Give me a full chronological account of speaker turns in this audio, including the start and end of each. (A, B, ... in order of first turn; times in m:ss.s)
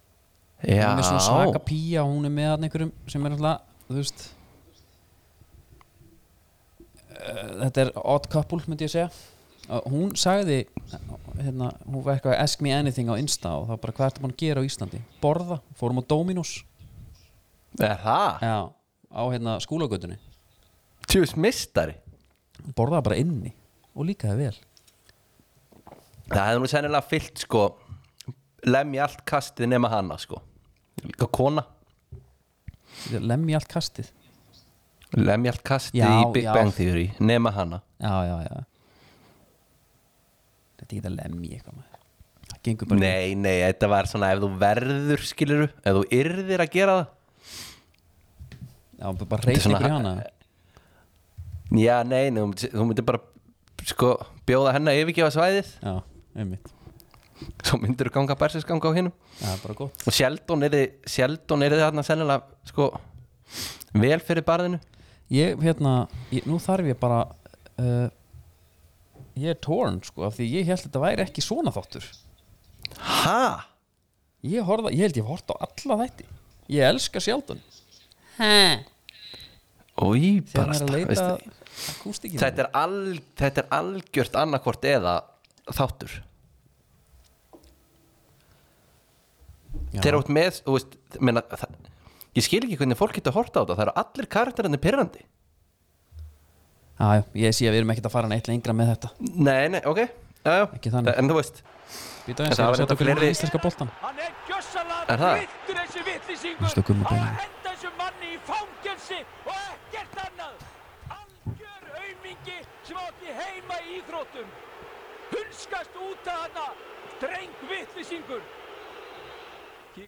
0:00.6-0:01.6 A
0:00.8-0:04.3 B
0:07.1-0:09.1 B
0:09.7-0:16.7 B
0:17.8-0:18.4 A
0:18.4-0:20.2 B
0:21.1-0:22.0 A
0:22.7-0:24.6 B
0:26.3-0:27.8 A
0:28.6-0:30.4 A
0:31.0-0:31.7 A
0:33.0-0:34.1 B
0:35.1-0:37.8 A
0:35.9-0:36.8 B
0:38.0-0:38.7 B
0:40.8-0:41.9 B
0:42.5-0:43.2 B
0:42.9-0:47.1 A
0:49.0-0:50.3 B
0:49.5-0:50.2 A
0:51.7-0:53.3 A
0:53.8-0:55.8 A
0:55.8-0:56.7 B
0:57.6-0:59.2 A
0:59.4-1:00.0 B
1:00.0-1:03.0 A
1:03.9-1:04.8 A
1:05.3-1:08.1 B
1:09.4-1:12.2 B
1:13.0-1:13.7 A
1:14.4-1:17.6 B
1:18.4-1:18.9 B
1:20.0-1:21.4 A
1:20.5-1:22.6 B
1:22.4-1:26.2 A
1:29.9-1:30.2 B
1:30.0-1:31.8 A
1:32.3-1:35.2 A
1:37.0-1:39.2 B
1:39.2-1:41.6 A
1:40.7-1:41.2 B
1:42.3-1:43.9 B
1:42.5-1:43.4 A
1:44.0-1:54.6 C
1:45.1-1:45.5 A
1:46.6-1:47.4 B
1:55.3-1:58.5 C